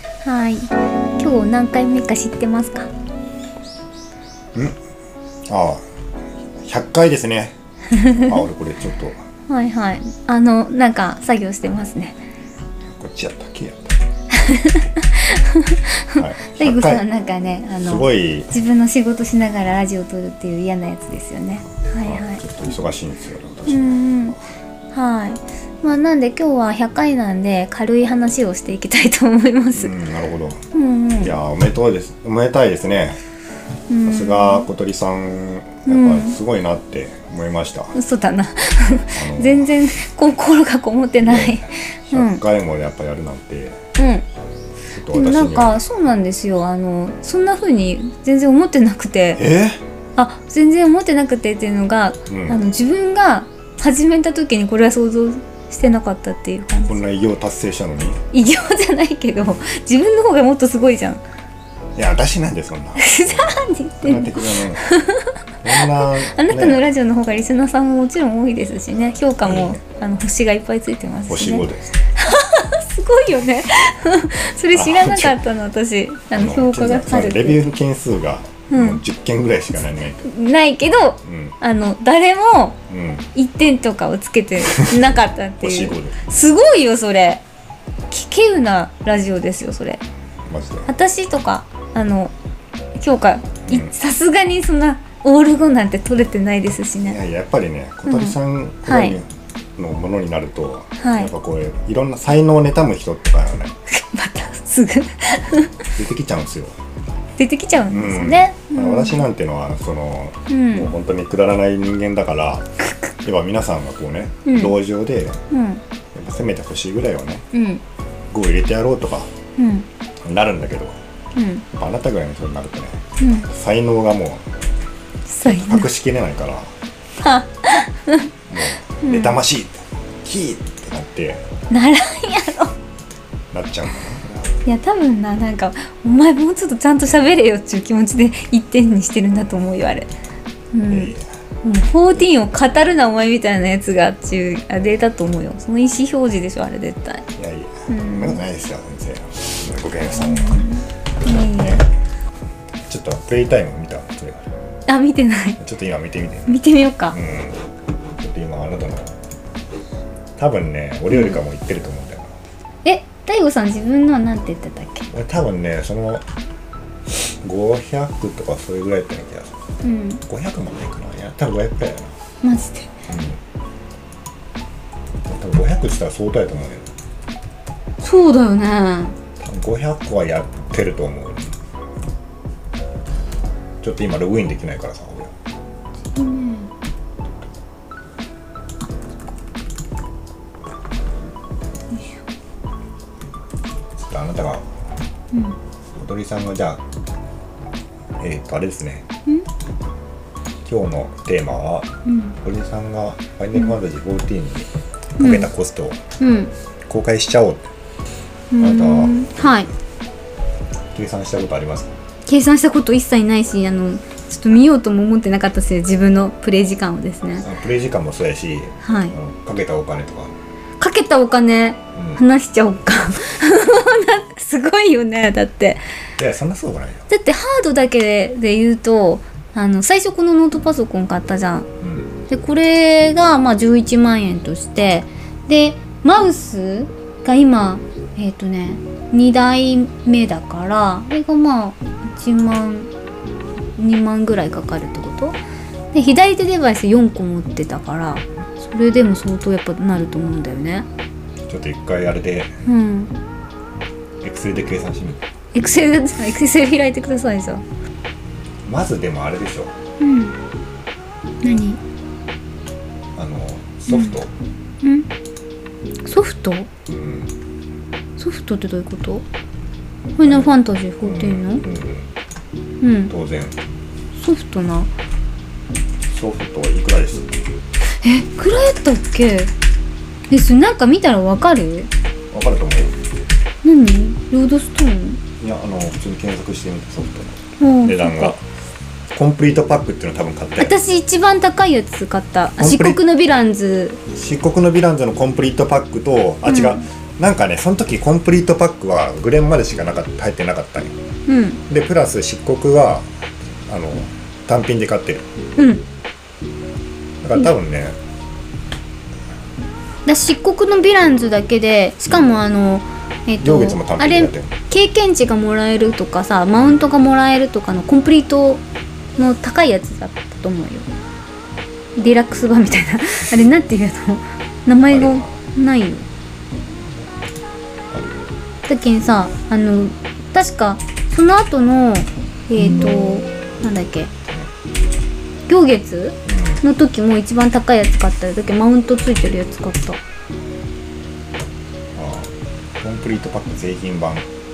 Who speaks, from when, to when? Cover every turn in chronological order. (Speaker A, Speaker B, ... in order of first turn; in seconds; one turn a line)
Speaker A: 0.2-2.9
Speaker B: 5.5-5.8
Speaker B: 6.6-7.5
Speaker A: 8.0-8.3
Speaker B: 8.1-9.2
Speaker A: 9.5-12.2
Speaker B: 12.9-14.0
Speaker A: 14.3-22.4
Speaker B: 16.1-17.0
Speaker B: 17.8-18.5
Speaker B: 22.0-24.4
Speaker A: 23.7-24.4
Speaker A: 24.9-29.9
Speaker B: 29.7-30.6
Speaker A: 30.7-31.3
Speaker B: 31.2-33.2
Speaker A: 33.9-34.7
Speaker B: 34.0-37.9
Speaker A: 35.9-36.4
Speaker A: 37.9-42.4
Speaker B: 39.1-39.7
Speaker B: 41.2-43.8
Speaker A: 44.0-44.2
Speaker B: 44.9-45.8
Speaker A: 45.1-49.4
Speaker B: 49.4-49.8
Speaker A: 50.2-57.0
Speaker B: 52.3-52.6
Speaker B: 56.9-58.2
Speaker A: 58.3-61.2
Speaker B: 62.0-64.8
Speaker A: 63.0-65.3
Speaker B: 65.6-66.8
Speaker A: 65.8-71.6
Speaker B: 69.4-69.8
Speaker B: 71.3-71.9
Speaker A: 72.2-77.6
Speaker B: 74.7-75.4
Speaker B: 76.3-80.2
Speaker A: 78.7-79.0
Speaker A: 80.2-82.8
Speaker B: 81.2-81.5
Speaker B: 82.9-83.3
Speaker A: 83.3-87.4
Speaker B: 84.7-85.0
Speaker B: 85.6-86.2
Speaker A: 88.1-90.0
Speaker B: 90.5-90.9
Speaker A: 90.8-92.3
Speaker A: 93.0-97.2
Speaker B: 97.0-99.2
Speaker A: 98.1-99.2
Speaker B: 99.8-103.8
Speaker A: 101.0-101.3
Speaker A: 103.9-105.8
Speaker B: 106.0-106.8
Speaker A: 107.4-109.2
Speaker B: 107.9-112.7
Speaker A: 110.5-110.9
Speaker A: 112.8-113.1
Speaker B: 113.2-115.4
Speaker A: 114.5-114.7
Speaker A: 115.5-115.8
Speaker B: 116.1-117.5
Speaker A: 117.5-117.8
Speaker B: 118.3-119.3
Speaker A: 119.6-119.9
Speaker B: 120.2-121.0
Speaker A: 121.3-121.6
Speaker B: 121.8-124.4
Speaker A: 123.2-123.5
Speaker A: 125.3-125.9
Speaker B: 125.4-126.7
Speaker A: 127.2-128.3
Speaker B: 128.5-131.4
Speaker A: 129.0-129.4
Speaker A: 131.7-132.7
Speaker B: 133.5-134.4
Speaker A: 134.6-140.1
Speaker A: 140.7-147.2
Speaker B: 140.9-141.3
Speaker B: 147.3-150.6
Speaker A: 147.9-148.4
Speaker A: 150.1-151.8
Speaker B: 151.4-151.8
Speaker B: 152.9-154.5
Speaker A: 154.9-155.6
Speaker B: 155.6-156.6
Speaker A: 156.5-157.2
Speaker B: 157.1-157.6
Speaker B: 158.2-159.1
Speaker B: 160.4-162.3
Speaker A: 161.1-161.4
Speaker A: 162.8-165.1
Speaker B: 165.1-166.2
Speaker B: 167.1-169.5
Speaker A: 169.8-170.2
Speaker B: 170.2-172.1
Speaker A: 172.4-172.9
Speaker B: 173.1-173.4
Speaker B: 175.2-176.9
Speaker A: 178.0-179.2
Speaker B: 179.4-181.6
Speaker B: 183.8-185.3
Speaker A: 186.1-186.7
Speaker B: 193.9-194.7
Speaker B: 195.9-196.8
Speaker B: 198.2-199.1
Speaker B: 200.6-201.9
Speaker A: 202.1-202.3
Speaker B: 202.4-206.0
Speaker A: 205.2-205.5
Speaker A: 206.2-206.5
Speaker B: 206.9-207.7
Speaker A: 208.5-209.7
Speaker B: 208.6-209.5
Speaker B: 210.9-211.9
Speaker A: 212.2-217.5
Speaker B: 217.4-220.4
Speaker A: 218.8-219.1
Speaker A: 220.8-225.8
Speaker B: 221.9-222.2
Speaker B: 226.2-227.1
Speaker A: 227.1-231.7
Speaker B: 231.8-232.1
Speaker A: 232.3-242.9
Speaker A: 243.8-245.4
Speaker A: 245.9-250.9
Speaker B: 251.5-252.5
Speaker A: 252.7-253.1
Speaker B: 254.2-255.2
Speaker A: 255.5-257.6
Speaker B: 258.6-259.8
Speaker A: 260.0-260.4
Speaker A: 261.4-261.8
Speaker B: 263.1-264.3
Speaker A: 264.8-265.1
Speaker A: 266.0-266.7
Speaker B: 266.9-267.3
Speaker A: 268.2-269.2
Speaker A: 270.2-271.6
Speaker B: 270.2-272.1
Speaker A: 272.8-273.1
Speaker B: 273.1-273.6
Speaker A: 274.1-274.9
Speaker B: 276.1-277.3
Speaker A: 278.0-279.5
Speaker A: 280.3-281.9
Speaker B: 282.3-282.9
Speaker A: 283.6-285.2
Speaker B: 285.4-288.4
Speaker A: 287.6-288.3
Speaker B: 289.1-290.8
Speaker A: 290.6-294.0
Speaker B: 292.6-293.0
Speaker B: 294.1-300.9
Speaker A: 296.4-296.8
Speaker A: 301.3-301.6
Speaker B: 301.7-303.1
Speaker B: 303.6-305.2
Speaker A: 305.6-305.8
Speaker B: 307.2-308.0
Speaker A: 310.1-318.6
Speaker B: 313.4-314.5
Speaker A: 319.2-320.9
Speaker A: 322.0-326.1
Speaker B: 324.9-325.3
Speaker B: 327.9-328.3
Speaker A: 328.7-334.1
Speaker A: 335.5-340.0
Speaker B: 336.2-336.6
Speaker B: 341.9-344.3